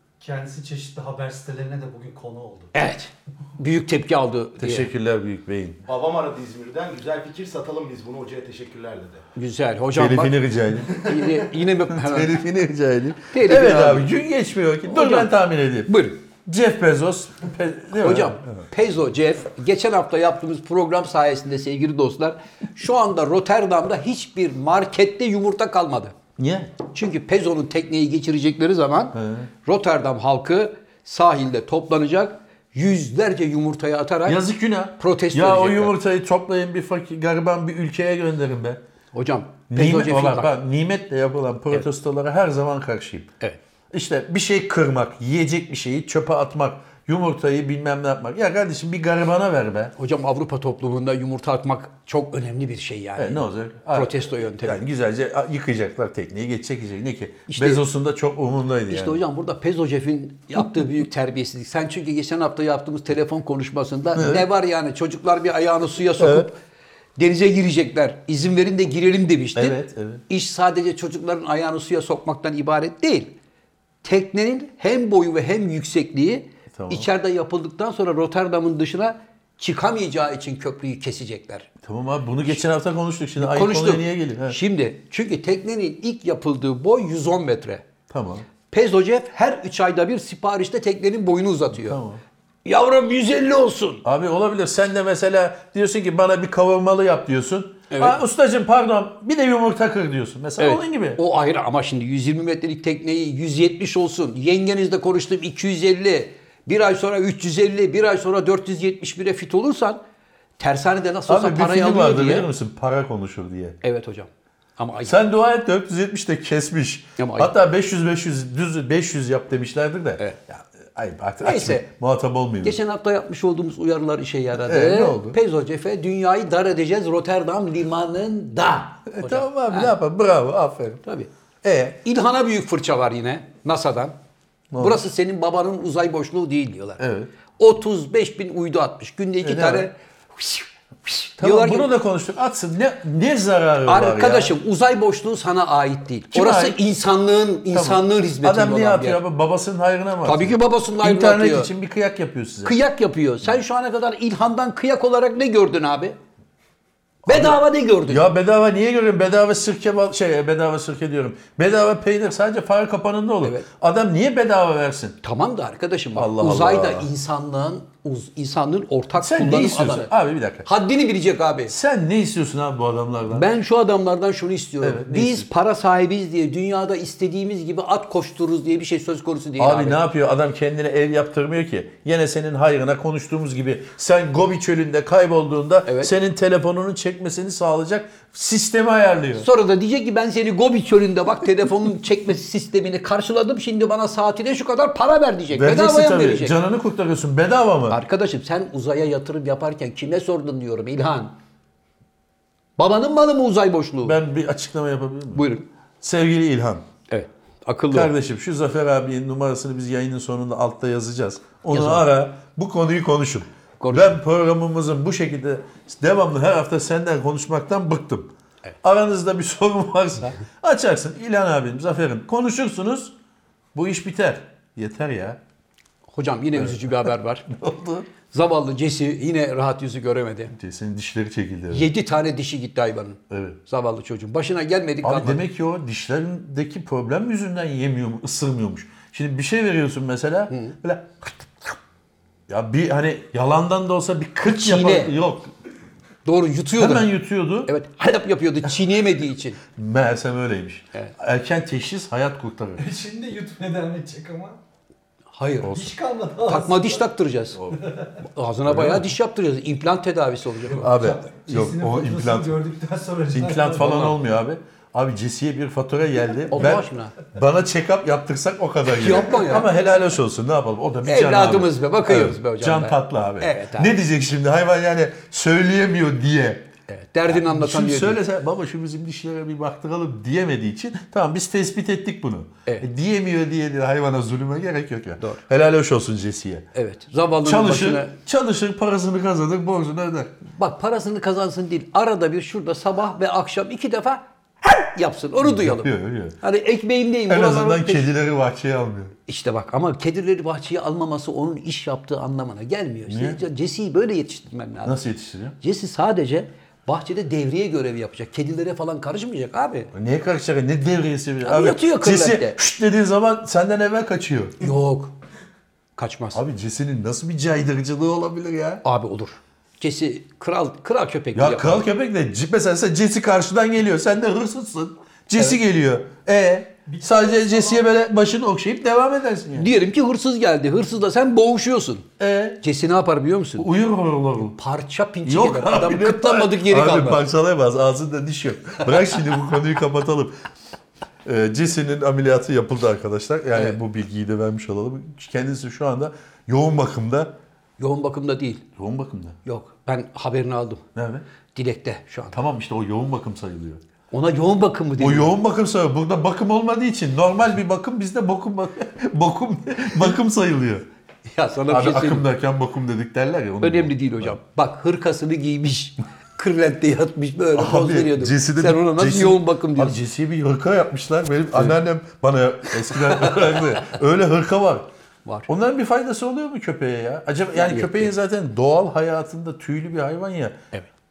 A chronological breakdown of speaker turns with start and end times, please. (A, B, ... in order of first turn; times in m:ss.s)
0:00.2-0:02.7 A
0:02.7-0:04.9 B
0:04.6-0:05.8 C
0:05.8-0:09.2 D
0:09.4-0:10.3 B
0:09.9-0:11.0 C
0:11.0-0:12.3 B
0:11.9-0:18.6 C
0:13.3-0:14.1 B
0:14.9-0:15.3 B
0:15.9-0:16.2 B
0:18.0-0:26.1 B
0:26.4-0:26.8 C
0:26.9-0:34.4 B
0:29.1-0:29.5 C
0:34.2-0:38.8 C
0:35.0-0:35.9 B
0:39.1-0:40.5 B
0:39.7-0:43.3 C
0:43.9-0:49.9 C
0:50.0-0:54.8 B
0:53.2-0:59.2 C
0:57.5-0:57.8 B
0:58.9-1:06.6 B
1:04.1-1:04.5 C
1:06.2-1:06.5 C
1:07.2-1:13.3 B
1:09.5-1:10.2 C
1:14.0-1:21.7 B
1:16.7-1:17.1 C
1:21.8-1:24.6 C
1:23.4-1:27.8 B
1:28.1-1:28.5 C
1:28.7-1:32.0 B
1:31.8-1:32.2 C
1:32.6-1:34.0 B
1:34.0-1:41.2 C
1:37.9-1:38.2 B
1:40.6-1:50.0 B
1:50.6-1:52.5 B
1:51.3-1:53.8 C
1:53.8-1:55.1 B
1:55.0-2:02.8 C
1:57.2-1:57.5 B
2:01.4-2:01.8 B
2:02.6-2:09.9 B
2:04.6-2:05.4 C
2:09.1-2:11.0 C
2:11.6-2:12.0 C
2:12.0-2:14.1 B
2:14.7-2:15.0 C
2:14.8-2:17.0 B
2:17.0-2:17.3 C
2:17.6-2:21.9 B
2:19.4-2:19.9 C
2:21.4-2:24.6 C
2:23.8-2:29.2 B
2:26.3-2:26.8 C
2:27.7-2:32.8 C
2:30.2-2:31.7 B
2:32.6-2:36.2 B
2:37.2-2:38.2 B
2:37.2-2:45.2 C
2:45.2-2:50.1 B
2:46.2-2:47.1 C
2:49.2-2:50.7 C
2:50.6-2:51.7 B
2:51.7-2:53.5 C
2:53.3-3:00.0 B
2:54.8-2:55.5 C
2:59.6-3:09.5 C
3:09.4-3:16.5 B
3:15.5-3:18.0 C
3:17.9-3:21.3 B
3:22.8-3:24.2 B
3:24.0-3:25.5 C
3:25.3-3:25.6 B
3:26.0-3:26.9 C
3:27.1-3:28.1 B
3:27.9-3:38.3 C
3:31.7-3:32.0 B
3:33.8-3:34.2 B
3:38.8-3:43.1 C
3:43.7-3:45.4 C
3:46.1-3:47.5 B
3:46.6-3:46.9 C
3:47.5-3:48.1 C
3:48.2-3:50.5 B
3:50.5-3:51.9 C
3:51.7-3:55.4 B
3:53.3-3:53.6 C
3:55.0-4:01.8 C
4:00.5-4:00.8 B
4:02.5-4:05.5 C
4:04.4-4:05.1 B
4:06.2-4:07.1 B
4:06.8-4:07.7 C
4:07.7-4:09.6 B
4:09.7-4:12.8 C
4:12.8-4:14.6 A
4:15.3-4:15.8 B
4:15.6-4:15.9 C
4:15.7-4:17.0 A
4:16.4-4:17.6 B
4:17.8-4:18.1 A
4:18.2-4:20.9 B
4:18.7-4:19.1 C
4:20.7-4:24.1 A
4:20.8-4:22.6 C
4:23.3-4:36.7 C
4:26.5-4:27.2 B
4:28.9-4:29.7 B
4:31.0-4:33.9 B
4:36.9-4:38.2 B
4:37.3-4:46.7 C
4:46.7-4:48.1 B
4:47.4-4:50.4 C
4:50.5-4:55.9 B
4:55.4-4:56.4 C
4:56.4-4:58.1 B
4:57.3-4:59.1 C
4:59.3-5:04.9 B
5:03.1-5:03.4 C
5:04.8-5:05.6 C
5:05.6-5:09.9 B
5:09.9-5:14.7 C
5:11.4-5:12.6 B
5:14.6-5:15.1 B
5:16.0-5:16.4 B
5:16.3-5:18.8 C
5:18.8-5:21.8 B
5:21.3-5:29.7 C
5:26.9-5:27.8 A
5:29.5-5:32.1 B
5:32.2-5:32.6 C
5:32.6-5:33.7 B
5:33.6-5:34.6 C
5:34.5-5:37.2 B
5:35.2-5:40.3 C
5:41.2-5:47.3 C
5:47.8-5:48.7 B
5:48.8-5:49.4 C
5:49.4-5:50.8 B
5:50.9-5:51.2 C
5:51.5-5:52.4 B
5:52.3-5:53.8 C
5:54.1-5:55.3 B
5:55.0-6:00.8 C
6:01.3-6:02.2 B
6:01.7-6:04.4 C
6:03.6-6:10.0 B
6:07.5-6:14.9 C
6:13.1-6:13.6 B
6:15.5-6:20.6 C
6:17.6-6:18.1 B